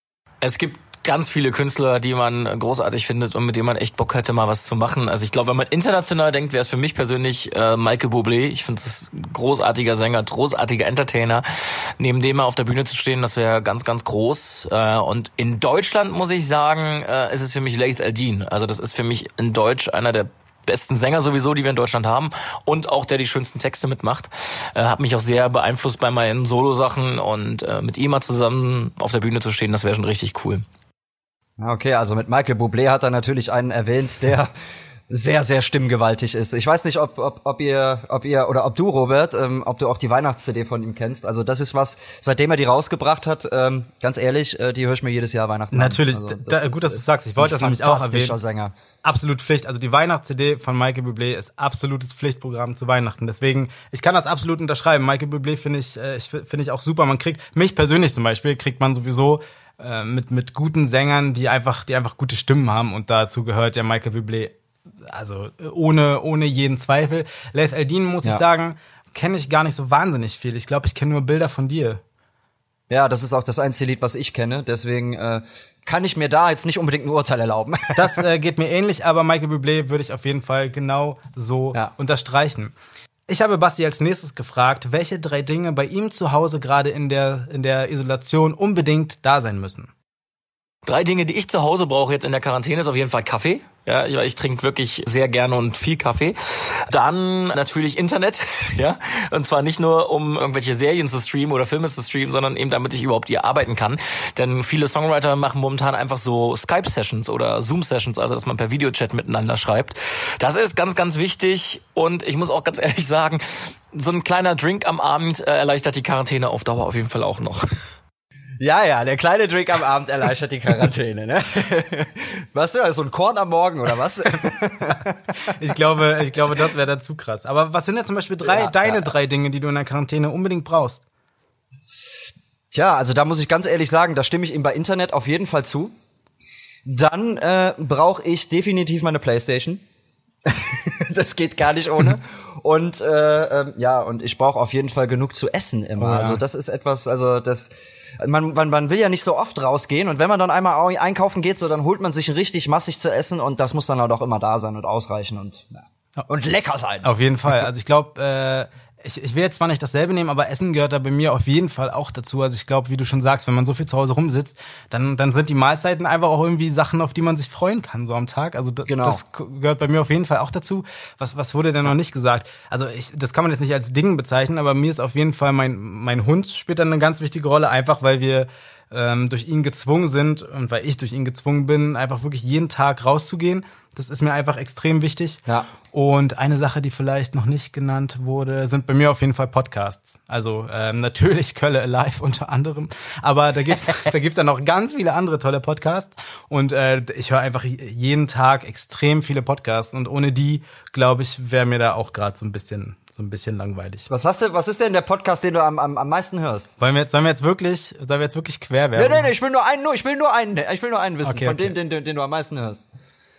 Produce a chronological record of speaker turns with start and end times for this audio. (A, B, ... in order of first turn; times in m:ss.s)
0:00.4-0:11.4 A
0:12.0-0:30.6 A
0:31.6-0:34.5 B
0:35.1-0:48.7 B
0:45.7-0:48.4 C
0:49.0-1:04.5 C
1:05.1-1:12.0 C
1:12.9-1:18.2 B
1:17.9-1:22.7 C
1:23.3-1:29.9 C
1:30.8-1:57.7 A
1:58.6-2:05.1 B
2:05.4-2:11.0 C
2:08.4-2:09.1 B
2:12.7-2:15.9 B
2:16.8-2:19.8 B
2:20.4-2:37.1 B
2:26.0-2:26.4 C
2:37.0-3:24.1 C
2:48.8-2:49.2 B
3:24.1-3:26.7 B
3:26.8-3:29.3 C
3:29.0-3:32.8 B
3:31.2-3:31.8 C